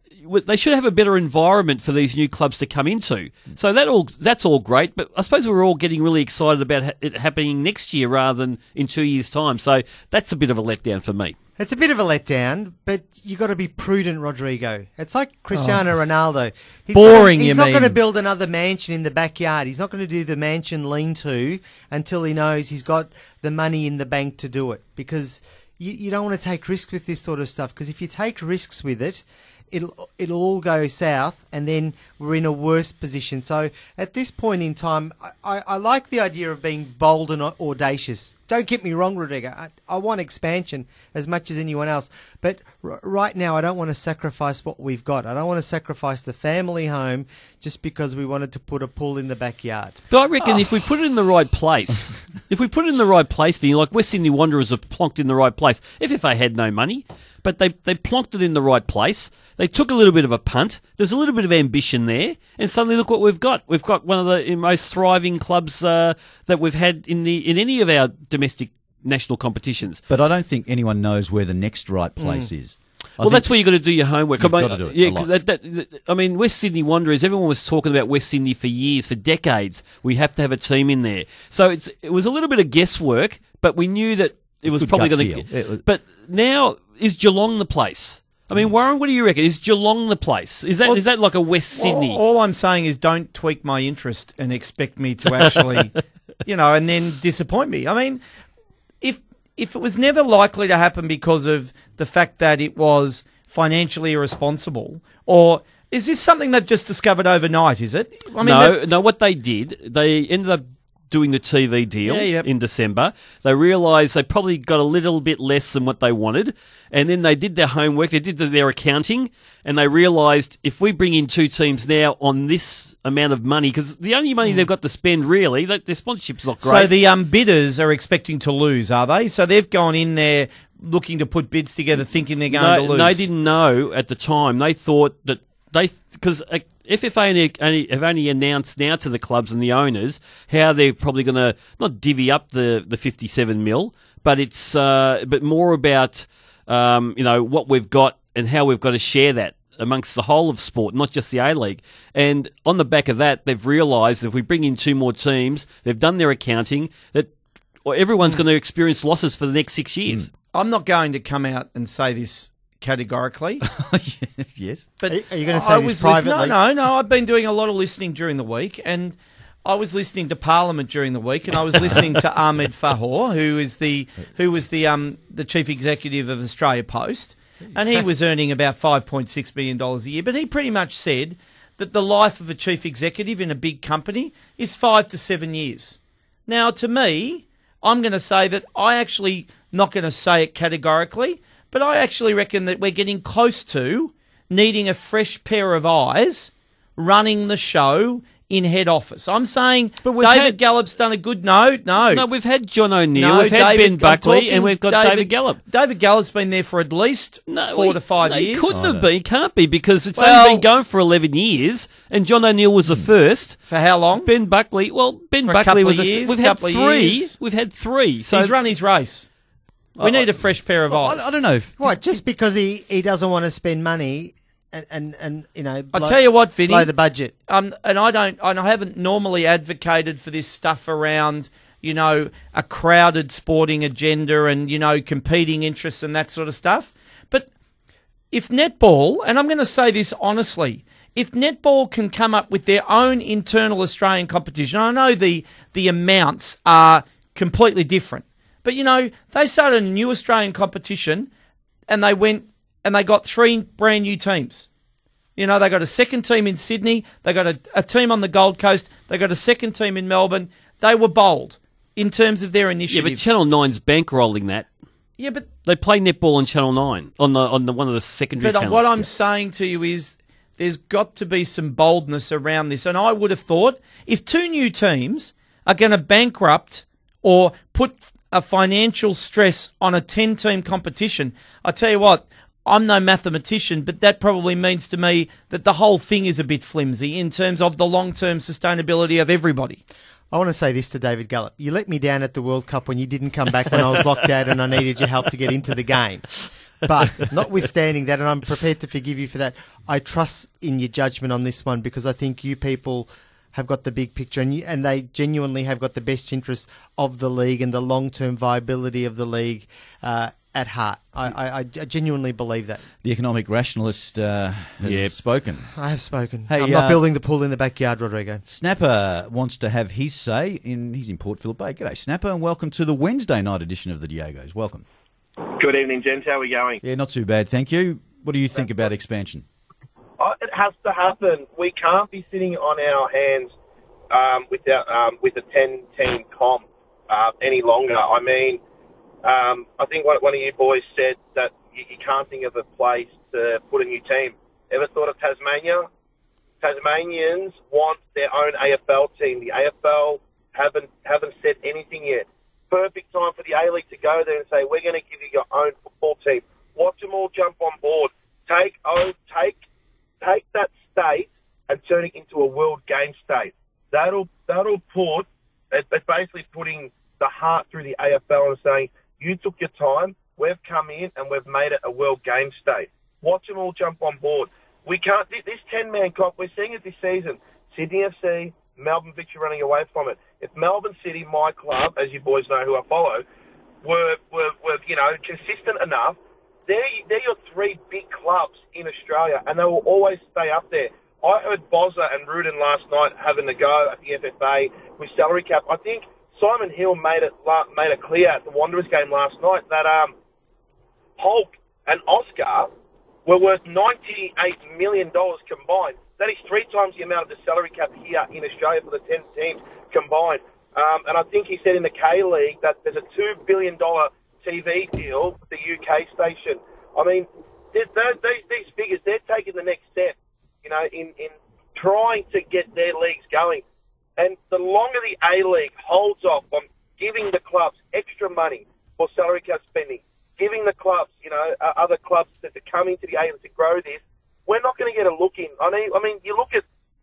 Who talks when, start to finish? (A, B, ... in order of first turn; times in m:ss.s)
0:00.2-0:11.3 A
0:11.6-0:50.0 B
0:15.5-0:15.8 C
0:16.9-0:18.0 C
0:50.1-1:10.0 A
1:10.1-1:15.3 D
1:12.2-1:12.5 B
1:13.2-1:32.2 A
1:24.6-1:25.8 D
1:31.7-1:35.9 C
1:36.4-1:38.2 C
1:39.0-1:48.8 C
1:48.4-2:06.9 A
1:52.0-1:52.5 C
2:06.6-2:13.3 C
2:12.5-2:37.3 A
2:37.8-2:40.3 A
2:40.5-2:43.6 C
2:43.6-2:44.9 D
2:45.0-3:22.2 C
2:45.1-2:46.6 B
3:20.0-3:20.6 A
3:22.0-3:25.6 A
3:23.1-3:28.7 C
3:27.5-3:38.6 A
3:28.7-3:29.1 D
3:30.1-3:30.6 C
3:33.6-3:34.3 C
3:35.4-3:37.4 C
3:38.3-3:39.3 C
3:40.0-3:40.3 A
3:40.0-3:41.3 C
3:40.9-3:42.2 D
3:41.8-3:47.3 B
3:45.9-3:57.5 C
3:58.3-4:11.3 C
4:11.9-4:14.7 C
4:15.4-4:23.2 C
4:22.9-4:24.7 A
4:25.2-4:25.5 C
4:25.6-4:29.0 A
4:28.4-4:49.8 C
4:50.3-5:12.8 B
5:13.0-5:15.7 D
5:14.8-5:15.1 A
5:15.7-5:18.4 B
5:16.5-5:17.0 D
5:18.4-5:24.8 D
5:26.0-5:26.4 E
5:26.8-5:29.4 D
5:30.2-5:33.5 E
5:34.1-5:38.6 E
5:39.2-5:45.9 E
5:46.6-5:59.6 E
6:00.2-6:23.2 E
6:23.8-6:40.1 E
6:41.2-6:42.7 E
6:43.2-7:03.6 E
7:04.2-7:16.6 E